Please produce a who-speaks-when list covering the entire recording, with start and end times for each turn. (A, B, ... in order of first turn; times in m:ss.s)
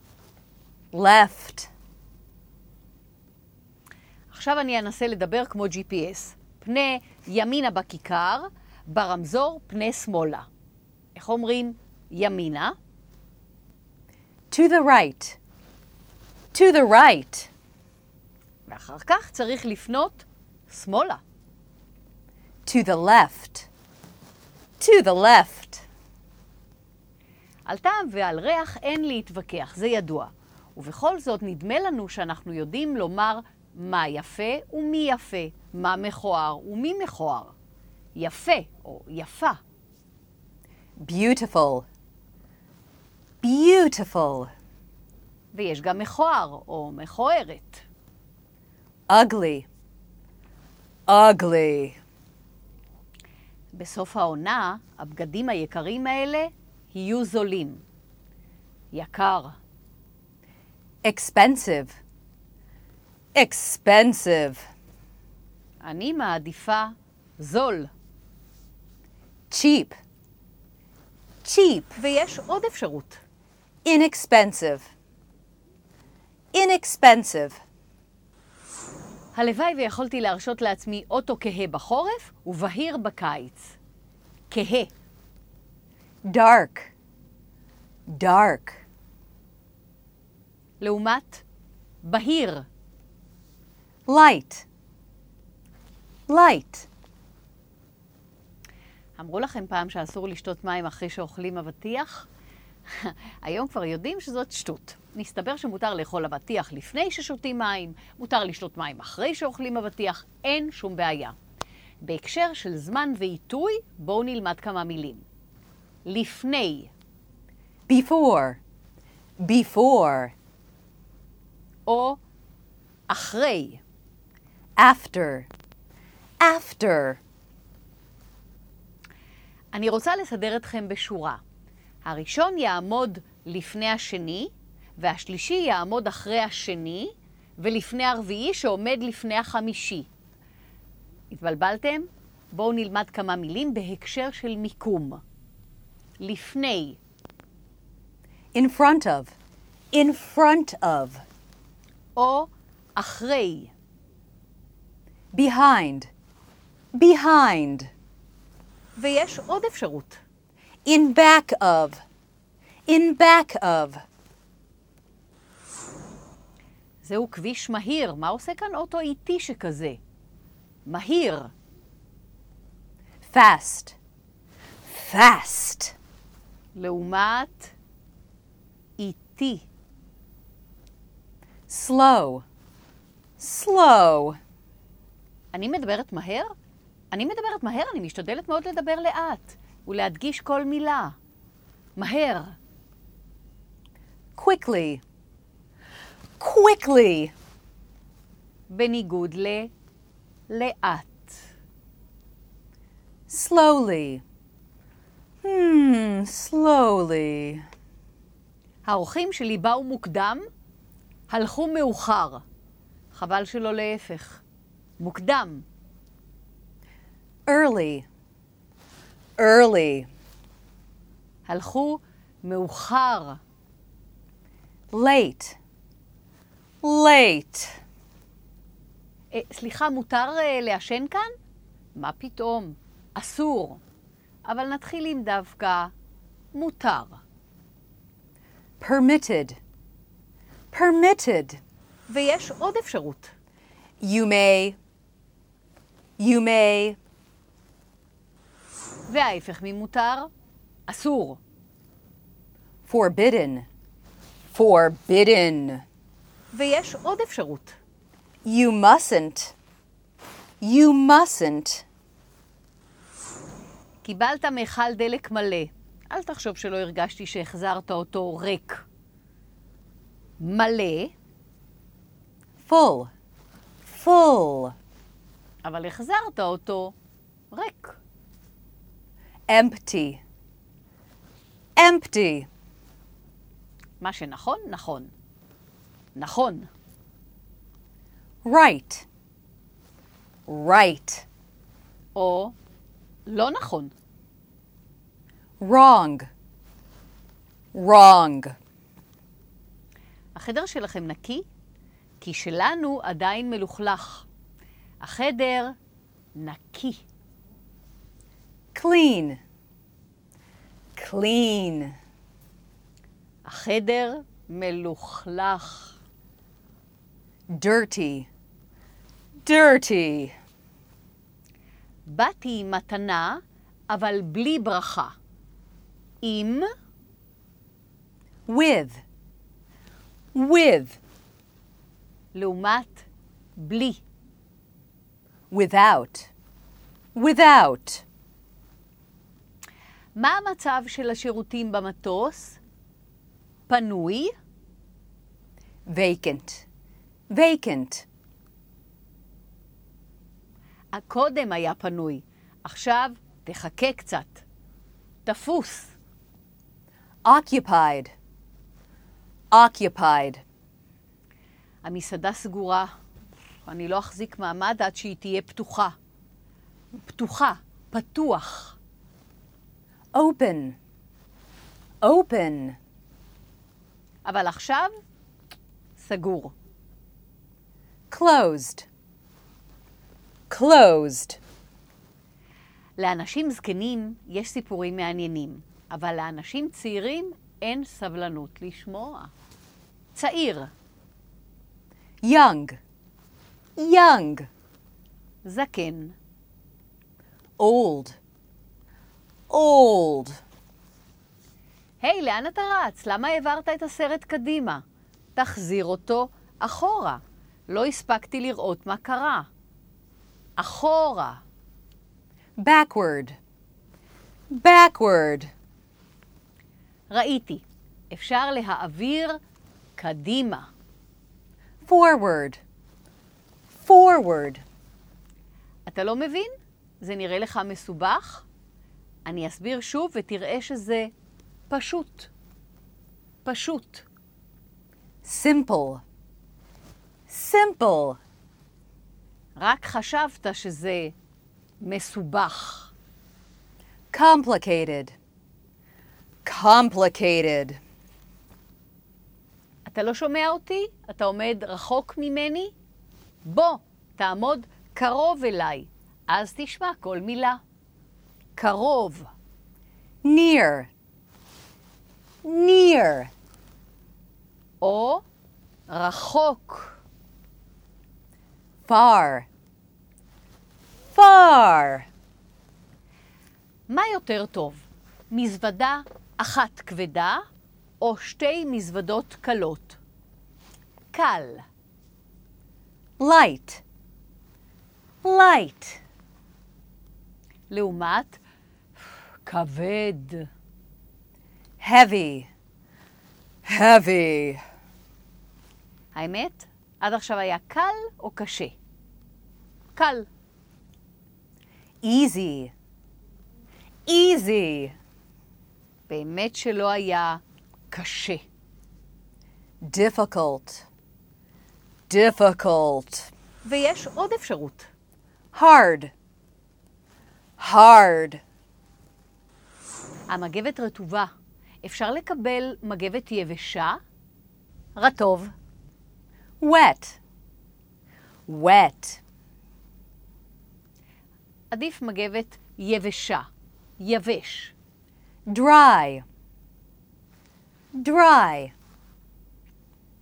0:00.9-0:01.7 A
0:04.3-0:10.5 B
0:11.1-0:12.8 B
0:14.5-0:15.4 A
0:16.5-0:17.5 A
0:18.7-0:21.2 B
0:22.6-0:23.7 A
0:24.8-0:25.8 A
0:27.6-0:37.5 B
0:38.2-0:39.6 B
0:41.0-0:41.8 A
0:43.4-0:44.5 A
0:45.5-0:47.8 B
0:49.1-0:49.6 A
0:51.1-0:52.0 A
0:53.7-0:57.8 B
0:58.9-0:59.5 B
1:01.0-1:02.0 A
1:03.3-1:04.7 A
1:05.8-1:07.9 B
1:09.5-1:10.0 A
1:11.4-1:12.0 A
1:12.0-1:13.2 B
1:13.8-1:14.9 A
1:16.5-1:17.6 A
1:19.3-1:23.8 B
1:24.5-1:24.9 B
1:26.2-1:26.9 A
1:28.1-1:28.8 A
1:30.8-1:31.4 B
1:32.0-1:32.6 B
1:34.1-1:34.6 A
1:36.3-1:36.9 A
1:39.2-1:42.3 B
1:42.9-1:51.3 B
1:52.0-1:55.2 B
1:56.0-1:56.9 B
1:57.9-1:58.6 A
1:59.4-2:00.3 A
2:01.9-2:02.2 B
2:03.1-2:03.8 B
2:04.8-2:05.5 A
2:06.4-2:07.2 A
2:09.7-2:11.4 B
2:12.0-2:20.1 B
2:21.3-2:25.2 B
2:26.2-2:27.0 B
2:28.5-2:29.3 A
2:29.9-2:31.2 A
2:32.2-2:33.7 B
2:35.3-2:36.1 A
2:36.9-2:37.9 A
2:39.0-2:40.2 B
2:40.8-2:42.0 A
2:42.9-2:44.0 A
2:47.0-2:50.0 B
2:50.8-2:51.5 B
2:53.2-2:54.0 A
2:54.8-2:56.0 A
2:56.7-2:57.7 B
2:59.0-2:59.7 B
3:01.7-3:02.4 A
3:03.4-3:04.4 A
3:05.5-3:06.5 B
3:07.1-3:11.1 B
3:12.0-3:12.5 B
3:14.4-3:15.0 A
3:16.4-3:17.3 A
3:18.7-3:19.7 B
3:20.5-3:21.4 B
3:23.3-3:24.2 A
3:25.4-3:27.6 A
3:28.8-3:30.4 B
3:31.3-3:32.4 B
3:33.1-3:34.4 B
3:35.0-3:35.6 B
3:37.5-3:38.0 A
3:39.4-3:40.1 A
3:41.4-3:43.4 B
3:44.9-3:45.6 A
3:46.8-3:47.8 A
3:49.3-3:51.3 B
3:51.9-3:53.8 B
3:54.4-3:55.9 B
3:56.5-3:57.2 B
3:58.8-3:59.6 A
4:00.7-4:01.6 A
4:02.1-4:03.3 B
4:04.0-4:04.8 A
4:06.2-4:07.0 A
4:09.1-4:10.3 B
4:10.9-4:11.4 B
4:12.8-4:13.6 A
4:14.5-4:15.8 A
4:16.5-4:17.8 B
4:18.4-4:19.5 A
4:20.6-4:21.8 A
4:24.0-4:28.8 B
4:30.4-4:31.1 B
4:32.6-4:33.1 A
4:33.9-4:34.7 A
4:35.6-4:36.9 B
4:37.5-4:38.0 B
4:39.5-4:40.2 A
4:41.8-4:42.5 A
4:44.0-4:45.1 B
4:46.1-4:46.7 B
4:48.4-4:49.0 A
4:50.5-4:51.2 A
4:52.1-4:52.5 B
4:53.3-4:53.9 B
4:55.6-4:56.3 A
4:57.7-4:58.5 A
5:00.3-5:01.4 B
5:02.2-5:04.2 B
5:05.0-5:05.7 B
5:06.4-5:07.0 B
5:08.7-5:09.4 A
5:11.0-5:11.9 A
5:13.4-5:16.0 B
5:17.5-5:18.3 A
5:19.4-5:20.3 A
5:22.1-5:25.1 B
5:26.2-5:26.6 B
5:28.4-5:29.0 A
5:30.3-5:31.0 A
5:32.3-5:33.0 B
5:33.6-5:34.0 B
5:35.5-5:36.3 A
5:37.1-5:38.0 A
5:40.2-5:42.6 B
5:43.7-5:44.3 B
5:45.9-5:46.6 A
5:47.3-5:48.0 A
5:50.9-5:54.4 B
5:55.2-5:55.9 B
5:57.2-5:58.1 A
5:59.5-6:00.4 A
6:01.8-6:02.9 B
6:03.6-6:05.9 B
6:07.0-6:08.8 B
6:10.1-6:10.8 A
6:12.0-6:12.8 A
6:14.2-6:14.9 B
6:16.0-6:16.5 B
6:18.1-6:18.9 A
6:20.5-6:21.4 A
6:23.0-6:29.3 B
6:30.1-6:30.7 B
6:32.2-6:32.8 A
6:33.8-6:34.5 A
6:35.4-6:36.1 B
6:37.6-6:38.2 A
6:39.5-6:40.4 A
6:42.0-6:44.8 B
6:45.4-6:49.5 B
6:50.6-6:51.4 B
6:52.6-6:53.4 A
6:54.5-6:55.5 A
6:57.1-6:59.4 B
7:00.0-7:00.7 B
7:01.8-7:02.6 A
7:03.7-7:04.6 A
7:05.9-7:08.4 B
7:09.2-7:11.1 B
7:11.7-7:12.3 B
7:13.4-7:14.0 B
7:15.2-7:16.0 A
7:17.3-7:18.2 A
7:19.6-7:21.1 B
7:21.8-7:22.9 B
7:24.1-7:25.2 A
7:26.4-7:27.8 A
7:29.8-7:32.7 B
7:33.4-7:37.6 B
7:38.6-7:39.3 B
7:40.2-7:40.9 A
7:42.4-7:43.3 A
7:44.8-7:45.2 B
7:45.9-7:47.0 B
7:48.8-7:49.5 A
7:51.1-7:52.1 A
7:53.9-7:57.4 B
7:58.0-8:00.0 B
8:01.1-8:01.6 B
8:03.2-8:03.8 A
8:05.2-8:06.0 A
8:07.7-8:08.4 B
8:09.4-8:10.5 B
8:11.8-8:12.5 A
8:13.6-8:14.6 A
8:16.1-8:18.7 B
8:19.9-8:20.3 B
8:22.0-8:22.7 A
8:24.0-8:24.9 A
8:26.1-8:28.4 B
8:29.8-8:30.8 A
8:32.1-8:33.3 A
8:33.6-8:34.9 B
8:35.5-8:36.1 A
8:37.6-8:38.4 A
8:40.3-8:41.3 B
8:41.8-8:44.0 B
8:45.0-8:45.5 B
8:46.6-8:47.2 A
8:48.5-8:49.2 A
8:51.7-8:53.5 B
8:54.0-8:54.7 B
8:55.5-8:56.2 A
8:57.9-8:58.7 A